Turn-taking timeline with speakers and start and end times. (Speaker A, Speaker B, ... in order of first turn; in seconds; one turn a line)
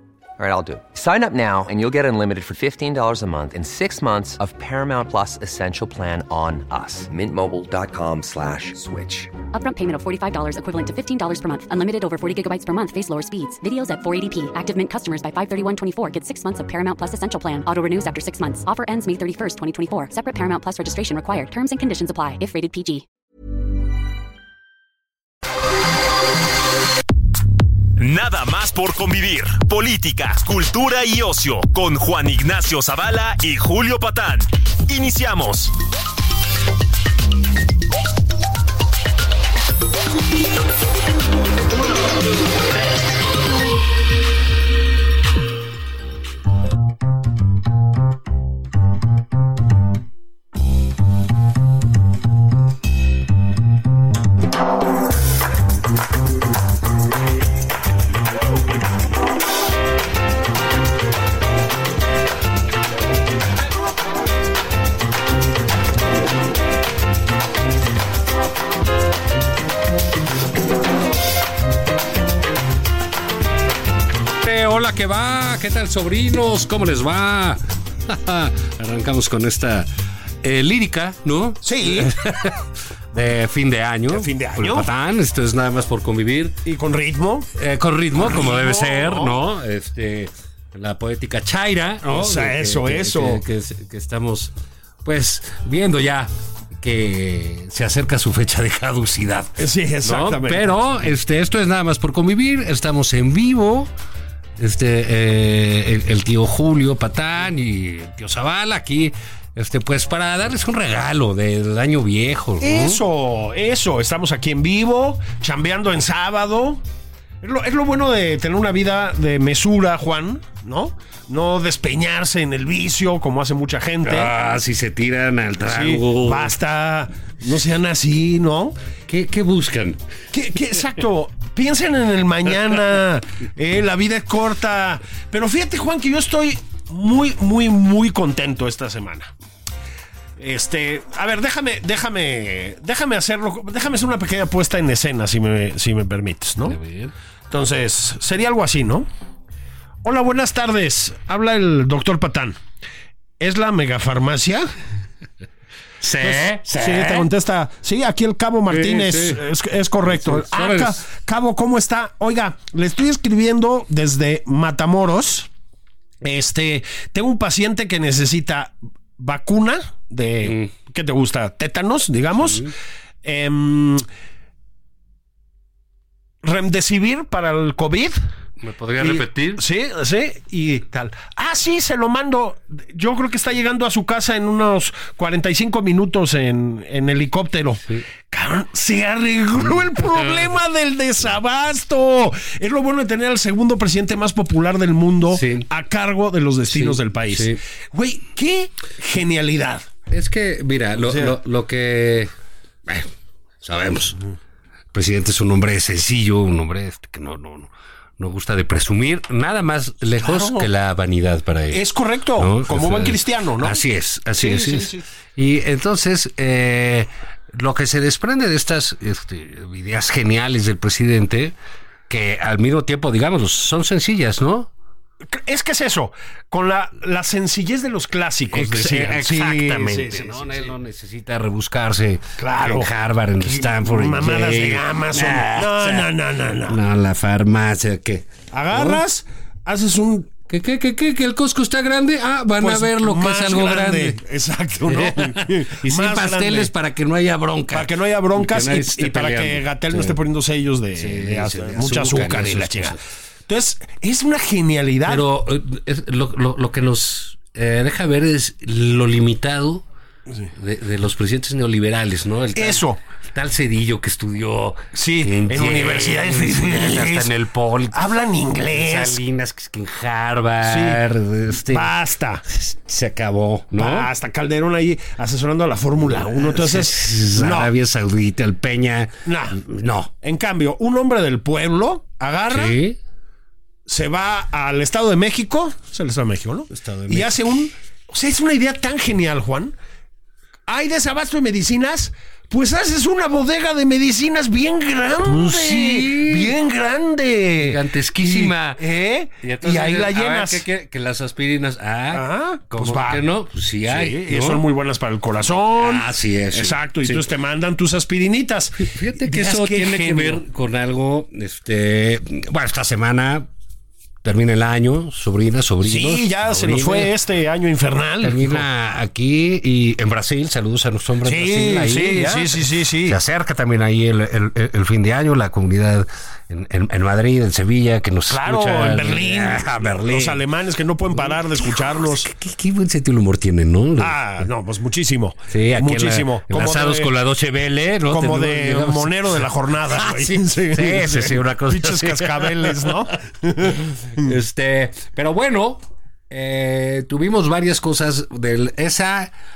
Speaker A: 0.4-9.3
Speaker B: 9.5-23.0
Speaker C: 28.0-35.7
Speaker D: 74.4-79.9
Speaker D: 80.4-86.6
Speaker E: 81.6-82.1
Speaker E: 84.1-84.9
Speaker E: 86.6-87.5
Speaker D: 87.5-94.5
Speaker E: 88.1-89.4
Speaker E: 92.1-93.4
Speaker D: 95.0-103.9
Speaker E: 99.6-100.7
Speaker D: 104.6-113.0
Speaker E: 112.6-116.8
Speaker E: 117.4-124.3
Speaker D: 124.0-126.5
Speaker E: 125.6-128.7
Speaker D: 129.1-130.0
Speaker E: 130.3-139.3
Speaker E: 140.4-146.8
Speaker D: 146.6-147.1
Speaker E: 147.5-149.1
Speaker E: 150.0-152.6
Speaker E: 153.4-154.7
Speaker D: 156.0-157.3
Speaker E: 156.2-165.5
Speaker D: 158.7-159.4
Speaker D: 160.0-161.0
Speaker E: 166.2-172.7
Speaker D: 170.4-170.7
Speaker D: 172.4-172.7
Speaker E: 173.2-174.0
Speaker E: 176.4-178.2
Speaker D: 178.6-179.6
Speaker E: 179.0-199.9
Speaker D: 189.6-190.4
Speaker D: 195.3-195.7
Speaker D: 196.7-197.6
Speaker D: 200.1-202.3
Speaker E: 201.0-201.4
Speaker D: 203.6-204.2
Speaker D: 204.9-211.8
Speaker E: 210.2-210.7
Speaker E: 211.7-213.8
Speaker D: 212.4-221.5
Speaker E: 214.4-215.0
Speaker D: 222.1-224.7
Speaker E: 225.3-230.7
Speaker D: 228.5-236.1
Speaker E: 232.4-232.9
Speaker E: 233.4-236.8
Speaker D: 236.7-239.0
Speaker E: 238.5-240.3
Speaker D: 240.5-244.2
Speaker E: 242.6-246.7
Speaker D: 244.8-250.2
Speaker E: 247.7-255.2
Speaker D: 250.9-253.0
Speaker D: 255.1-259.8
Speaker D: 260.5-268.1
Speaker E: 262.5-263.0
Speaker E: 264.9-267.3
Speaker E: 267.9-269.2
Speaker D: 268.7-271.9
Speaker E: 270.6-271.0
Speaker E: 271.5-272.4
Speaker D: 272.5-274.1
Speaker E: 273.8-277.7
Speaker D: 276.1-280.1
Speaker E: 279.2-279.6
Speaker E: 280.2-282.8
Speaker D: 282.5-283.0
Speaker E: 283.9-289.7
Speaker D: 286.7-287.3
Speaker E: 290.7-300.6
Speaker D: 295.2-296.5
Speaker D: 297.6-298.8
Speaker D: 299.4-304.6
Speaker E: 302.1-303.3
Speaker E: 303.9-310.4
Speaker D: 305.5-307.3
Speaker D: 308.8-313.5
Speaker D: 314.2-317.1
Speaker E: 315.8-318.6
Speaker D: 318.2-330.4
Speaker E: 321.2-323.2
Speaker E: 328.3-332.3
Speaker D: 331.1-334.4
Speaker E: 334.0-337.1
Speaker D: 335.5-343.0
Speaker E: 338.1-344.3
Speaker D: 344.1-349.3